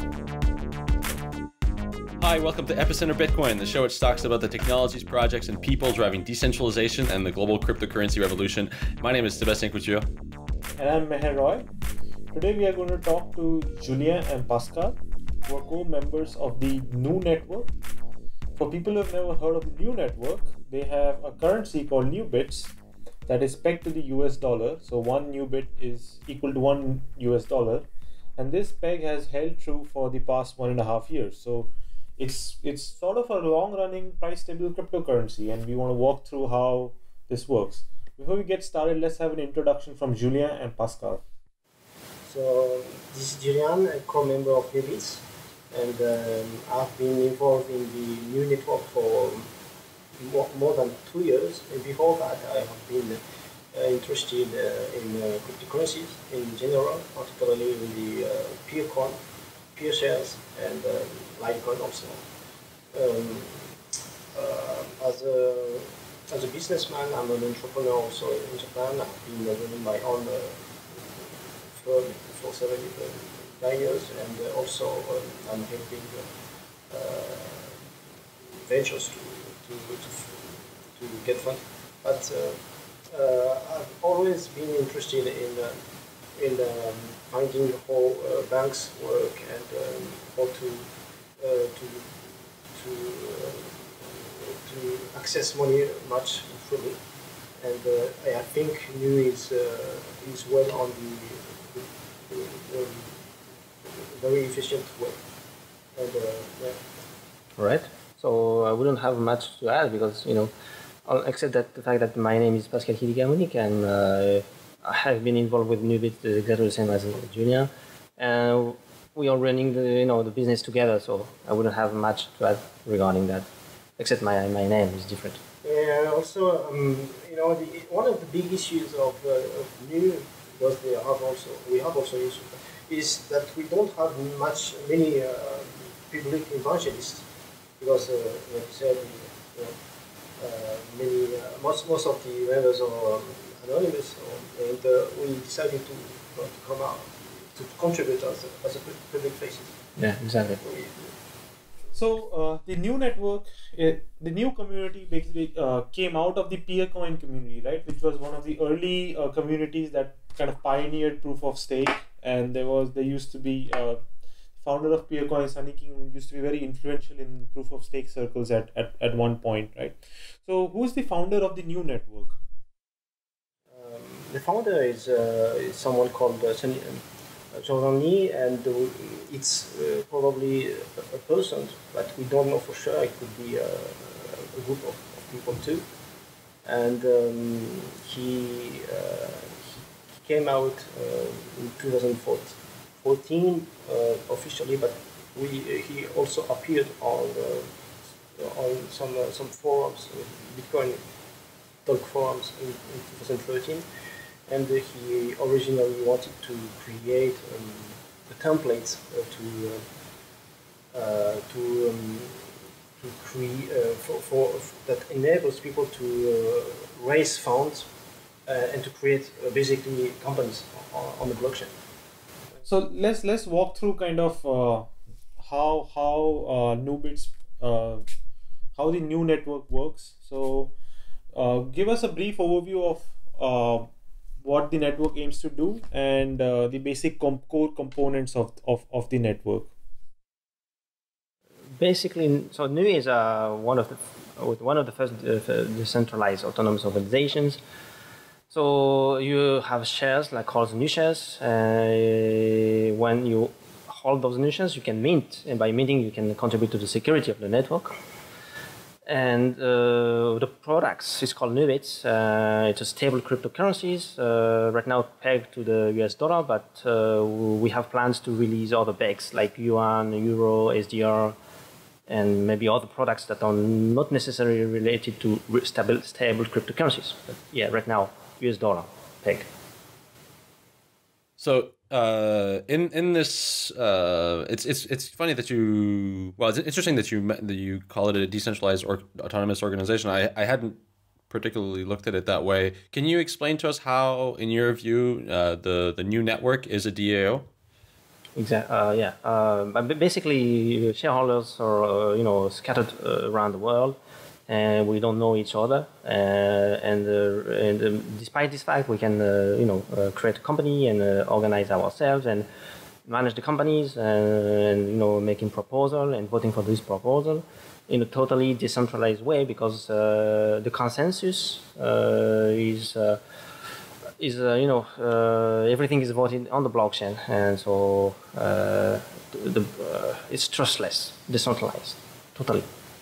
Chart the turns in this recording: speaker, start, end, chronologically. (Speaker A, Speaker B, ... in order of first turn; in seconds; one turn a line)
Speaker A: 2.2-10.1
Speaker B: 10.8-11.6
Speaker B: 12.3-17.7
Speaker B: 18.6-22.7
Speaker B: 23.3-27.8
Speaker B: 28.4-41.2
Speaker C: 42.3-49.5
Speaker C: 50.1-53.2
Speaker C: 53.7-59.2
Speaker C: 59.7-62.2
Speaker C: 62.9-63.8
Speaker C: 64.3-76.3
Speaker C: 76.9-77.8
Speaker C: 78.5-85.8
Speaker C: 86.4-90.8
Speaker C: 91.4-97.0
Speaker C: 97.6-103.2
Speaker C: 103.8-105.2
Speaker C: 106.0-106.8
Speaker D: 107.6-110.5
Speaker D: 111.0-123.4
Speaker D: 124.0-125.4
Speaker C: 125.6-137.2
Speaker C: 137.8-139.7
Speaker C: 140.4-149.8
Speaker D: 150.0-150.6
Speaker C: 150.6-151.1
Speaker B: 151.9-164.0
Speaker B: 164.6-172.3
Speaker C: 173.7-177.0
Speaker C: 177.5-185.8
Speaker C: 186.7-197.7
Speaker C: 198.3-201.0
Speaker C: 201.8-203.8
Speaker C: 204.5-209.8
Speaker C: 210.9-217.9
Speaker C: 218.5-221.7
Speaker B: 222.7-228.0
Speaker B: 228.8-230.7
Speaker B: 231.3-233.9
Speaker B: 234.4-239.7
Speaker D: 241.8-247.6
Speaker D: 248.5-257.9
Speaker D: 259.1-271.4
Speaker D: 272.1-279.5
Speaker A: 281.4-290.8
Speaker A: 291.3-297.5
Speaker D: 298.4-304.0
Speaker D: 304.5-312.5
Speaker D: 313.1-323.2
Speaker D: 324.2-332.6